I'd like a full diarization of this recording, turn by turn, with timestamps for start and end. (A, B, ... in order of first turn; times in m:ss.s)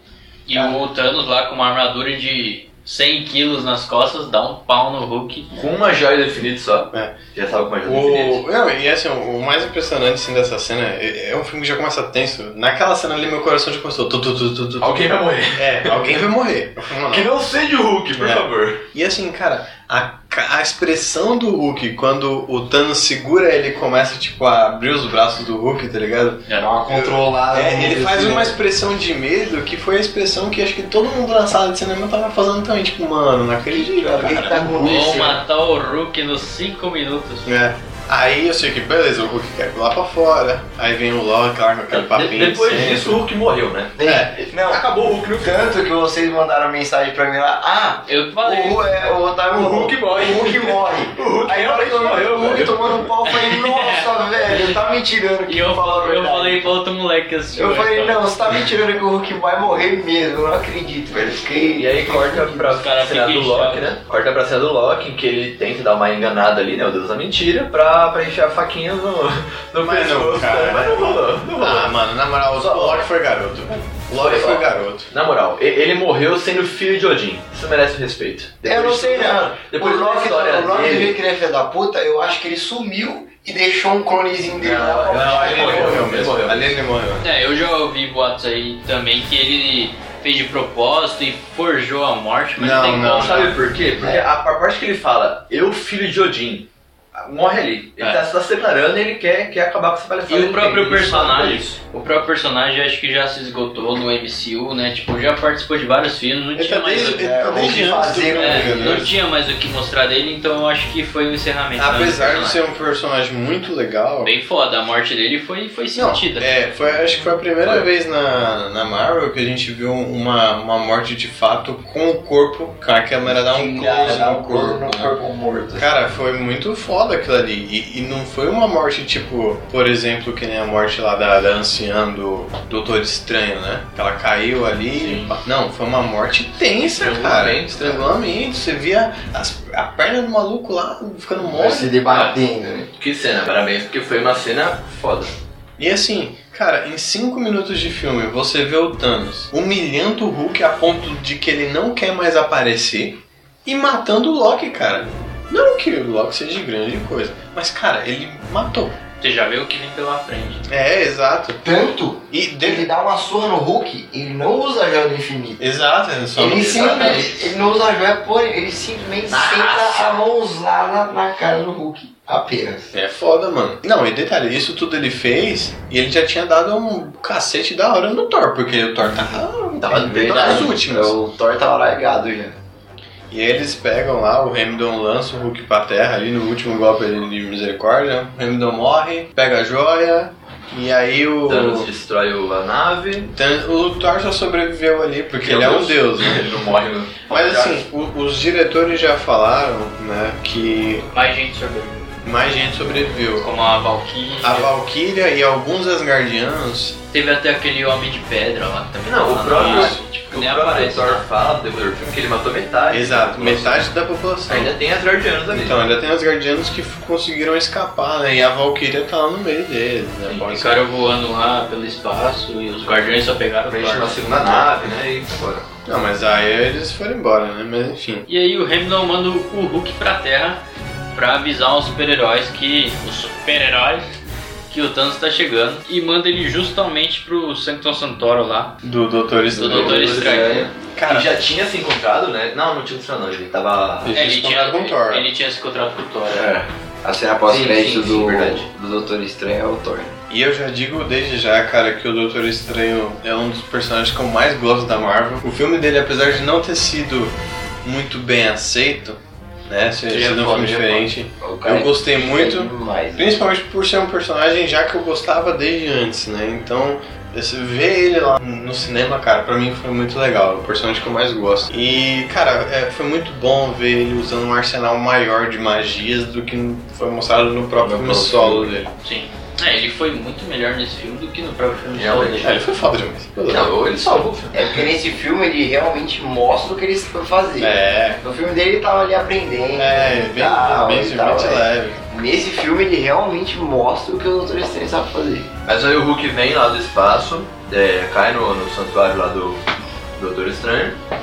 0:00.5-0:05.6 A
0:05.5-0:08.4 B
0:07.8-0:17.3 C
0:14.8-0:16.2 B
0:17.1-0:18.8 B
0:18.1-0:35.3 C
0:26.5-0:28.5 D
0:33.7-0:35.4 D
0:34.8-0:37.5 A
0:37.4-0:43.2 C
0:41.9-0:45.7 B
0:44.0-0:44.8 D
0:44.0-0:44.3 C
0:45.4-0:56.6 D
0:48.1-0:48.8 A
0:49.5-0:53.1 B
0:53.2-0:54.6 A
0:55.5-0:58.3 A
0:57.5-1:02.6 D
1:01.1-1:11.9 B
1:02.6-1:03.9 A
1:09.8-1:15.1 C
1:12.5-1:13.0 B
1:14.1-1:21.2 B
1:18.6-1:26.1 D
1:24.6-1:26.8 B
1:24.6-1:27.3 C
1:27.2-1:33.5 A
1:32.6-1:33.5 C
1:32.9-1:41.8 B
1:34.0-1:34.2 D
1:40.3-1:47.2 A
1:46.5-1:49.1 C
1:47.1-1:49.1 D
1:48.3-1:52.6 A
1:51.8-1:54.3 C
1:54.2-1:56.5 A
1:55.9-2:05.2 C
2:03.3-2:05.9 D
2:05.8-2:22.0 C
2:15.0-2:15.4 B
2:16.8-2:18.1 B
2:21.4-2:22.9 D
2:23.0-2:25.4 B
2:25.8-2:39.0 C
2:39.2-2:40.6 A
2:40.7-2:41.6 C
2:41.6-2:45.6 D
2:42.3-2:42.9 C
2:45.6-2:47.3 C
2:46.4-2:52.9 D
2:46.5-2:47.5 B
2:49.3-2:50.2 B
2:52.9-3:01.1 C
2:59.8-3:00.7 B
2:59.9-3:02.6 D
3:03.3-3:11.9 C
3:11.5-3:13.3 B
3:13.3-3:16.5 C
3:15.4-3:17.8 B
3:17.3-3:21.1 C
3:21.1-3:22.1 A
3:22.2-3:23.5 C
3:23.4-3:24.7 A
3:24.4-3:27.0 C
3:27.1-3:31.2 A
3:29.0-3:33.9 B
3:29.5-3:30.0 C
3:32.9-3:34.7 C
3:34.5-3:35.8 B
3:35.5-3:40.8 C
3:40.4-3:44.6 A
3:43.7-3:45.7 B
3:45.8-3:48.3 C
3:48.3-3:50.6 A
3:51.1-3:54.1 A
3:54.7-3:58.8 A
3:58.8-4:00.4 C
3:59.5-4:00.7 A
3:59.7-4:04.1 B
4:00.0-4:00.7 D
4:00.9-4:01.4 C
4:04.0-4:05.2 C
4:04.1-4:06.5 A
4:06.3-4:10.2 D
4:07.4-4:08.7 B
4:10.3-4:38.9 C
4:20.1-4:21.0 B
4:21.4-4:23.4 D
4:37.8-4:38.8 D
4:39.0-4:42.6 A
4:41.9-4:42.4 B
4:42.4-4:43.7 C
4:43.5-4:44.8 B
4:44.5-4:55.5 D
4:47.6-4:48.2 C
4:49.8-4:52.0 C
4:55.6-4:59.6 B
5:00.2-5:01.0 B